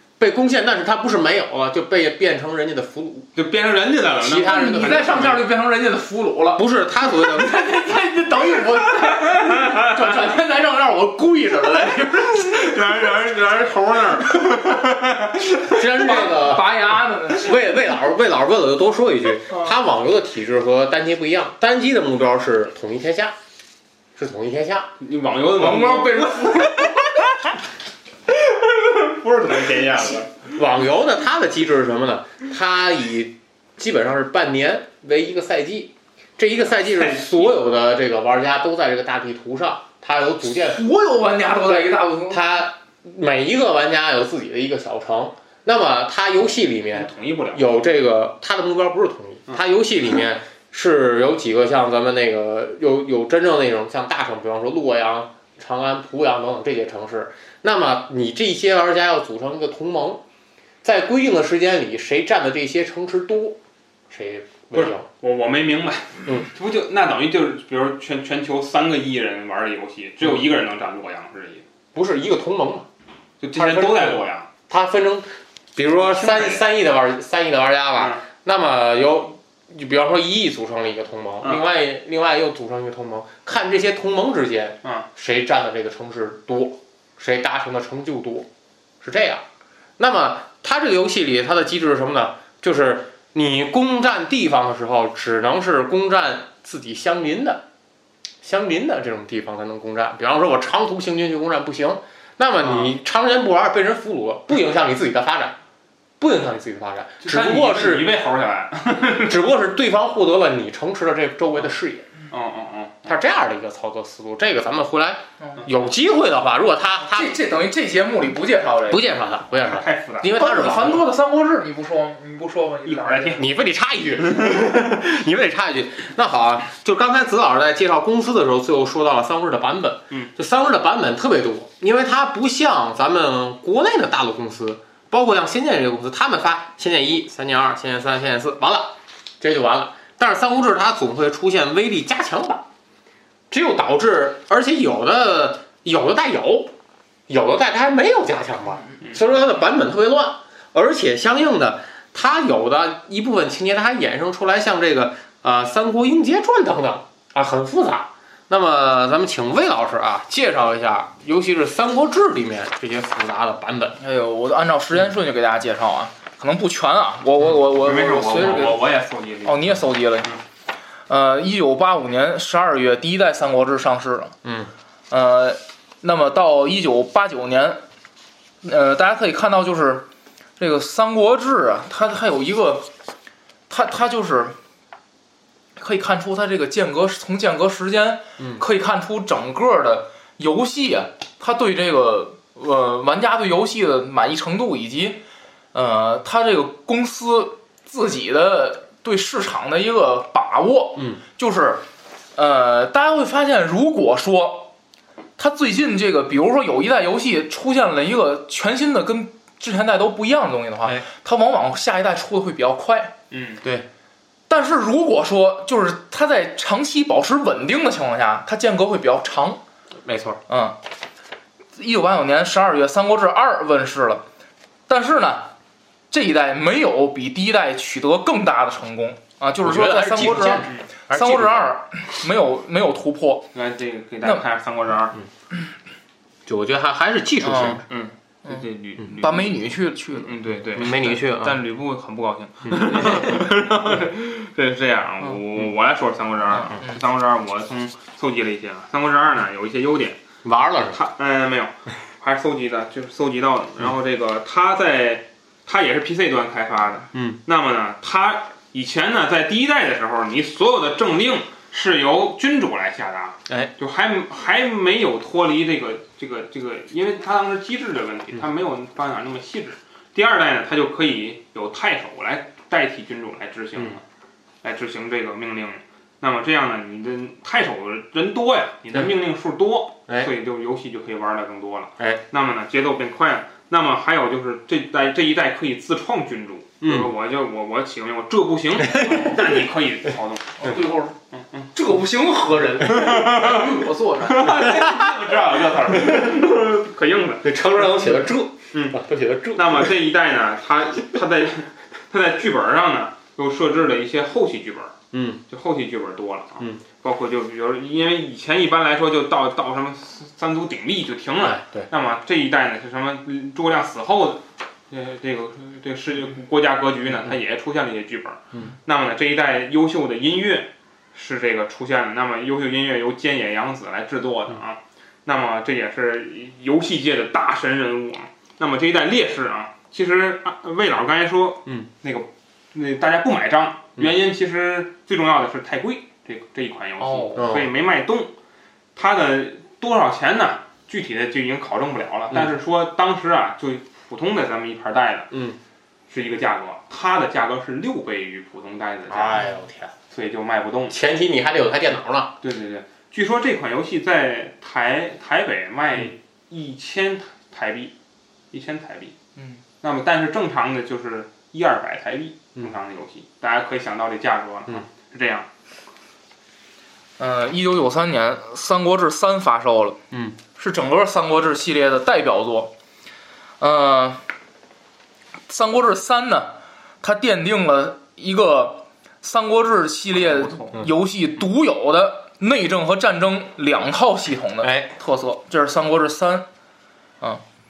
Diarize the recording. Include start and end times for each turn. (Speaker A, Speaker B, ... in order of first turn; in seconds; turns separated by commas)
Speaker A: 0.2-3.3, Speaker B: 3.4-4.7, Speaker A: 4.2-5.4, Speaker C: 4.3-12.7, Speaker A: 6.5-7.8, Speaker B: 9.5-9.9, Speaker B: 12.4-15.4, Speaker A: 13.0-14.5, Speaker A: 15.6-23.3, Speaker C: 15.8-17.8, Speaker B: 19.5-19.8, Speaker A: 24.1-24.9, Speaker B: 25.0-27.2, Speaker C: 25.6-27.1, Speaker B: 28.3-30.5, Speaker A: 30.5-40.8, Speaker B: 36.6-37.5, Speaker C: 40.6-42.5, Speaker A: 41.7-60.2, Speaker B: 46.9-47.8, Speaker A: 60.8-63.6, Speaker A: 64.1-65.0, Speaker B: 64.7-71.6, Speaker A: 71.9-72.9, Speaker B: 73.4-74.5, Speaker A: 73.5-88.5, Speaker B: 75.9-76.6, Speaker B: 78.0-78.2, Speaker A: 89.0-89.4, Speaker A: 90.0-97.6, Speaker A: 98.4-105.6, Speaker B: 102.6-102.9, Speaker A: 106.2-108.1, Speaker B: 107.2-109.5, Speaker A: 109.2-112.1, Speaker B: 112.3-113.1, Speaker A: 113.0-117.4, Speaker C: 117.0-119.0, Speaker A: 118.9-121.0, Speaker B: 119.6-120.4, Speaker C: 120.2-123.5, Speaker B: 122.8-123.4, Speaker A: 123.3-142.7, Speaker A: 143.5-146.7, Speaker A: 147.3-164.0, Speaker C: 164.0-168.8, Speaker B: 167.8-170.4, Speaker A: 168.3-168.7, Speaker C: 169.4-170.3, Speaker C: 171.1-174.3, Speaker A: 174.4-174.7, Speaker C: 175.1-177.8, Speaker C: 178.6-180.1, Speaker C: 180.6-182.9, Speaker C: 183.7-184.6, Speaker C: 185.8-195.2, Speaker A: 188.4-188.6, Speaker C: 195.7-201.8, Speaker A: 200.9-201.2, Speaker C: 202.3-204.7, Speaker C: 205.4-213.1, Speaker B: 213.3-213.6, Speaker C: 214.5-219.6, Speaker A: 220.0-220.4, Speaker C: 220.5-220.8, Speaker C: 221.8-224.2, Speaker C: 224.9-225.5, Speaker C: 226.1-233.5, Speaker A: 229.6-231.7, Speaker B: 233.5-235.2, Speaker A: 236.4-237.8, Speaker C: 237.4-237.8, Speaker B: 237.9-239.5, Speaker C: 238.4-240.4, Speaker B: 240.1-250.2, Speaker A: 240.7-241.6, Speaker A: 242.7-243.3, Speaker C: 246.6-247.0, Speaker A: 250.4-251.0, Speaker B: 250.9-274.0, Speaker A: 257.1-257.4, Speaker B: 274.6-291.7, Speaker A: 286.8-287.1, Speaker A: 289.0-289.2, Speaker C: 290.6-291.2, Speaker C: 291.7-294.7, Speaker B: 292.9-297.9, Speaker A: 295.8-296.4, Speaker A: 297.4-299.9, Speaker B: 298.7-299.0, Speaker B: 299.5-305.0, Speaker A: 305.1-305.4, Speaker B: 305.5-338.3, Speaker A: 311.4-311.9, Speaker C: 337.0-337.5, Speaker A: 337.4-337.7, Speaker B: 338.9-345.3, Speaker A: 345.3-345.6, Speaker B: 346.1-349.4, Speaker A: 349.1-349.9, Speaker B: 350.1-351.0, Speaker A: 350.9-352.3, Speaker B: 352.4-357.9, Speaker B: 358.5-359.1, Speaker C: 359.4-359.6, Speaker B: 359.8-365.5, Speaker C: 367.2-370.0, Speaker A: 370.1-370.4, Speaker C: 370.6-372.7, Speaker C: 373.6-374.2, Speaker C: 375.5-386.4, Speaker A: 384.6-384.9